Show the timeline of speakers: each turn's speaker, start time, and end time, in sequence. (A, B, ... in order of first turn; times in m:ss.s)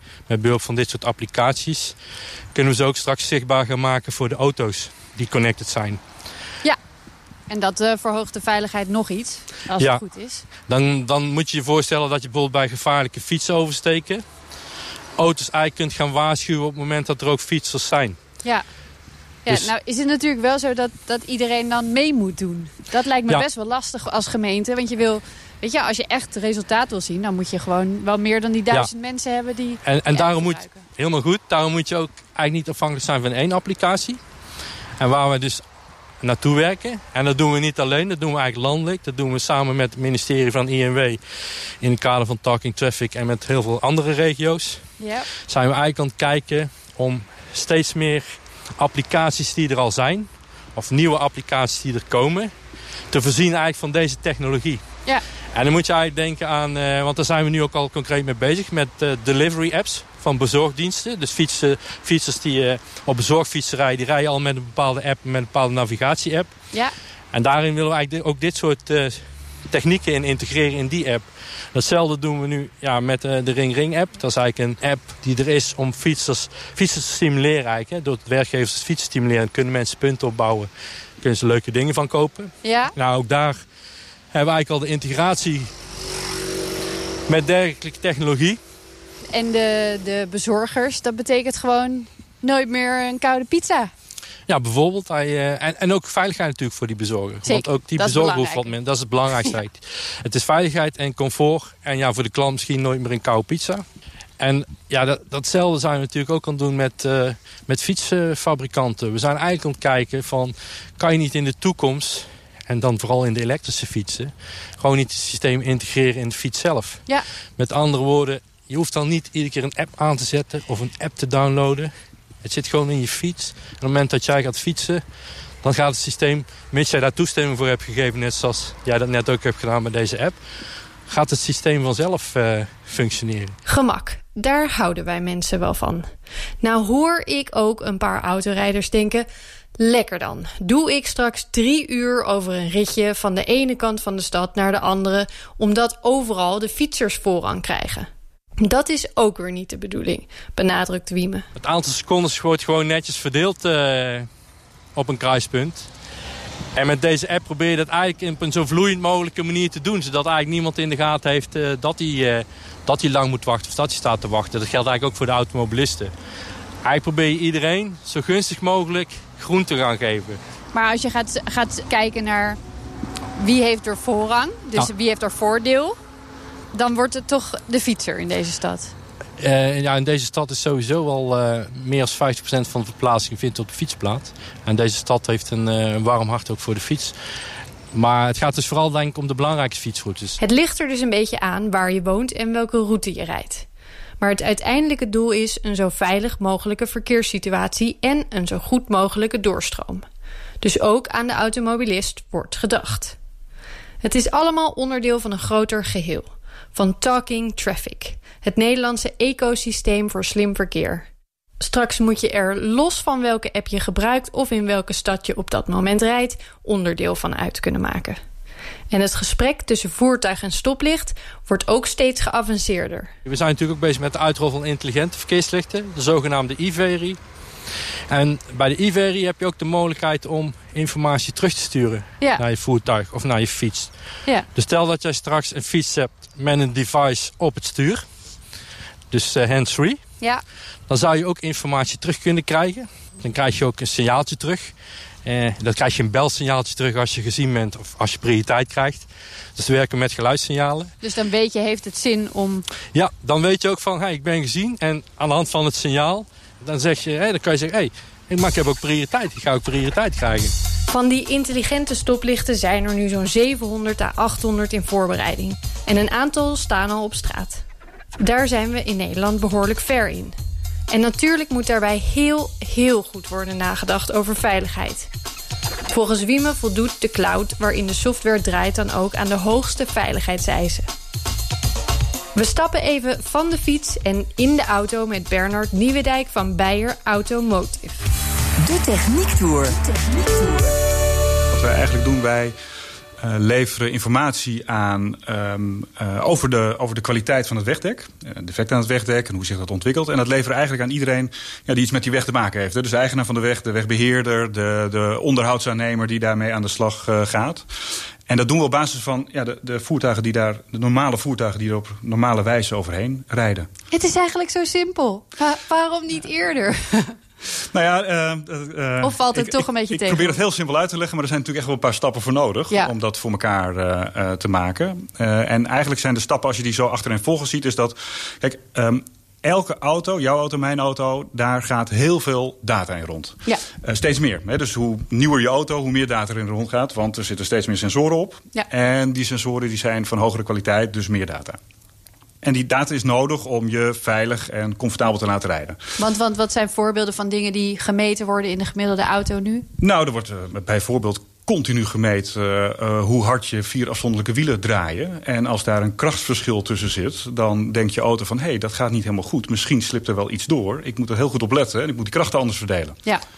0:00.3-0:01.9 A
0:02.5-0:06.0 A
0:07.5-0:10.4 B
0:09.8-0:10.0 A
0:10.6-0:14.2 A
0:15.2-0:18.2 A
0:19.4-0:30.8 B
0:29.8-0:34.2 A
0:35.0-0:35.6 A
0:36.2-0:41.2 A
0:41.8-0:44.8 A
0:45.0-0:45.3 B
0:45.4-0:52.5 A
0:53.1-0:54.8 A
0:55.5-1:06.5 A
1:07.3-1:20.7 A
1:21.2-1:23.6 A
1:22.6-1:22.9 B
1:24.3-1:25.7 A
1:27.3-1:28.6 A
1:29.3-1:33.9 B
1:34.5-1:43.8 A
1:37.4-1:38.7 B
1:44.4-1:57.0 A
1:57.6-2:01.9 A
2:02.4-2:05.0 A
2:05.6-2:10.4 A
2:11.1-2:13.6 A
2:13.6-2:16.0 C
2:16.6-2:19.3 C
2:19.8-2:31.4 C
2:31.6-2:34.3 A
2:34.9-2:35.9 A
2:36.7-2:46.1 A
2:46.8-2:50.4 A
2:50.7-2:52.6 B
2:53.4-2:56.0 B
2:56.7-2:58.9 B
2:59.4-3:07.1 A
3:07.9-3:10.4 A
3:10.4-3:13.6 C
3:14.2-3:20.0 C
3:20.6-3:23.2 C
3:24.0-3:31.0 C
3:31.6-3:38.2 C
3:38.9-3:43.1 C
3:43.2-3:47.2 A
3:48.1-3:53.9 A
3:54.5-3:58.0 A
3:59.1-4:00.0 A
4:00.9-4:04.7 A
4:05.2-4:10.9 A
4:11.0-4:12.6 B
4:12.9-4:20.5 A
4:20.9-4:27.6 C
4:28.2-4:30.3 C
4:30.9-4:35.1 C
4:35.9-4:40.9 C
4:42.3-4:48.0 C
4:48.6-4:50.8 D
4:51.5-4:52.5 E
4:53.2-5:07.7 E
5:08.3-5:13.7 E
5:13.9-5:17.1 B
5:17.7-5:41.6 E
5:19.0-5:20.4 B
5:42.4-5:45.8 E
5:46.0-5:49.6 B
5:49.8-6:03.0 E